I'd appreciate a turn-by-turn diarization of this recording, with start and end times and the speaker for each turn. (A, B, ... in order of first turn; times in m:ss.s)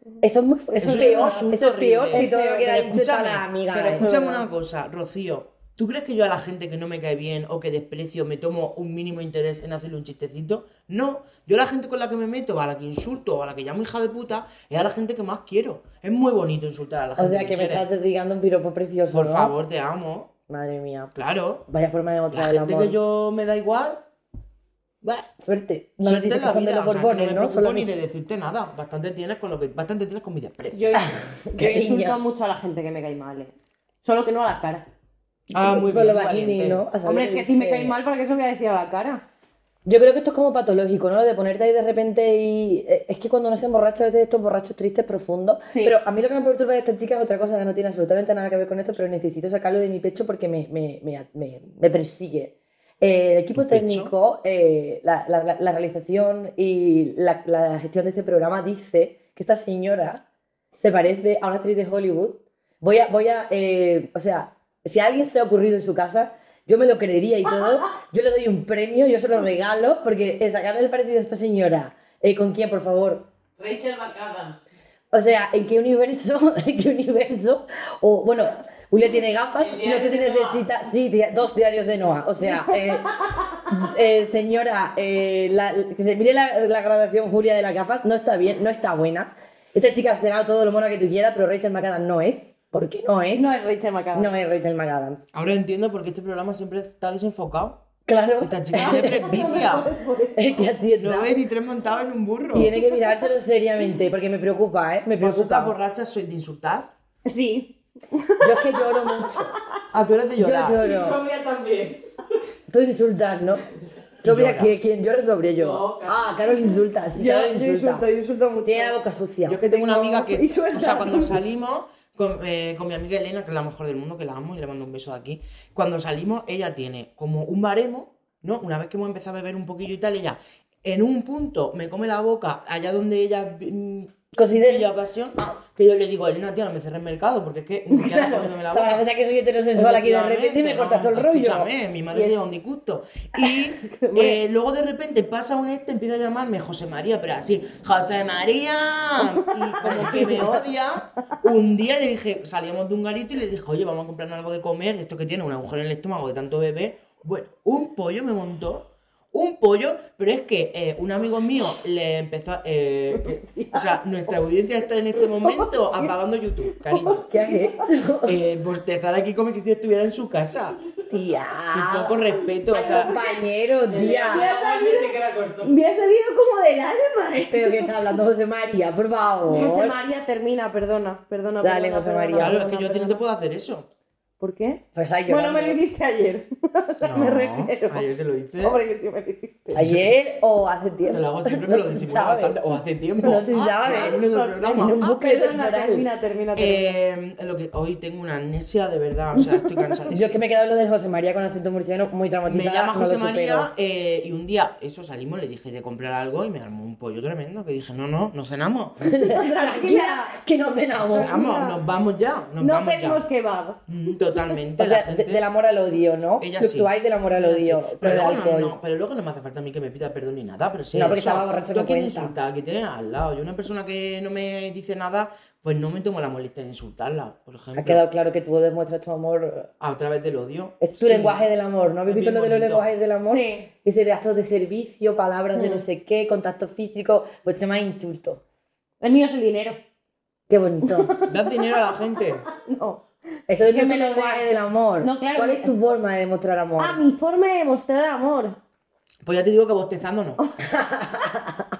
0:00.2-0:04.1 A
0:00.8-0:17.8 B
0:00.8-0:01.5 C
0:02.1-0:02.8 C
0:03.7-0:04.4 C
0:17.2-0:19.5 A
0:19.1-0:20.3 B
0:20.5-0:21.1 A
0:21.1-0:21.6 B
0:21.7-0:23.0 A
0:22.3-0:24.0 B
0:25.0-0:25.3 B
0:25.4-0:27.9 A
0:26.0-0:31.1 B
0:30.7-0:33.5 C
0:31.0-0:32.2 A
0:34.0-0:34.9 C
0:35.5-0:36.8 B
0:35.5-0:37.9 A
0:37.0-0:39.2 C
0:39.8-1:00.2 A
0:45.7-0:46.0 C
0:53.5-0:54.1 B
1:00.7-1:13.3 A
1:13.6-1:14.6 D
1:15.1-1:23.1 A
1:19.6-1:20.6 D
1:23.7-1:33.5 A
1:33.3-1:34.3 C
1:34.1-1:35.2 A
1:35.3-1:37.8 B
1:38.1-1:39.6 A
1:38.4-1:39.9 B
1:38.7-1:40.7 C
1:40.4-1:41.3 A
1:41.0-1:42.8 B
1:42.5-1:45.7 A
1:45.2-1:46.9 B
1:47.2-1:49.5 C
1:48.4-1:49.5 A
1:49.9-1:50.9 B
1:50.4-1:51.2 A
1:50.8-1:52.0 D
1:52.7-1:53.6 A
1:54.2-1:58.0 A
1:54.2-1:54.7 B
1:55.6-1:56.4 D
1:57.1-1:59.0 C
1:58.6-1:59.6 A
1:59.4-2:19.0 B
1:59.7-2:01.3 C
2:14.3-2:15.6 A
2:17.9-2:21.7 A
2:19.7-2:47.3 B
2:23.8-2:24.4 C
2:29.2-2:30.6 C
2:29.9-2:30.3 A
2:43.1-2:44.0 C
2:45.2-2:46.1 C
2:46.7-2:47.8 C
2:47.3-2:48.4 A
2:48.2-2:50.8 B
2:51.1-2:54.5 A
2:51.7-2:53.1 B
2:52.7-2:53.4 C
2:53.9-2:55.7 D
2:53.9-2:57.9 C
2:57.5-3:00.0 A
2:59.5-3:03.2 C
3:01.6-3:02.8 A
3:02.4-3:03.9 B
3:04.4-3:08.1 C
3:04.9-3:05.8 A
3:07.0-3:08.8 B
3:08.6-3:09.8 C
3:09.7-3:10.1 B
3:09.7-3:12.6 A
3:11.1-3:15.0 B
3:13.2-3:16.0 A
3:13.5-3:16.9 C
3:16.6-3:20.4 B
3:20.1-3:23.7 A
3:22.5-3:29.0 B
3:29.0-3:31.3 A
3:29.2-3:30.4 C
3:31.1-3:33.2 B
3:31.1-3:31.8 C
3:32.6-3:34.4 C
3:33.9-3:35.4 B
3:34.8-3:38.7 A
3:36.4-3:48.0 B
3:40.9-3:42.3 A
3:47.8-3:49.7 A
3:49.8-3:51.4 B
3:50.8-3:58.4 A
3:52.1-3:52.9 B
3:53.2-3:53.7 C
3:55.5-3:55.8 C
3:59.0-3:59.8 C
4:00.5-4:01.1 A
4:00.8-4:01.7 C
4:01.2-4:02.5 B
4:02.5-4:03.0 C
4:03.5-4:07.0 A
4:03.7-4:05.7 C
4:06.8-4:08.6 C
4:09.2-4:10.4 B
4:10.7-4:11.7 A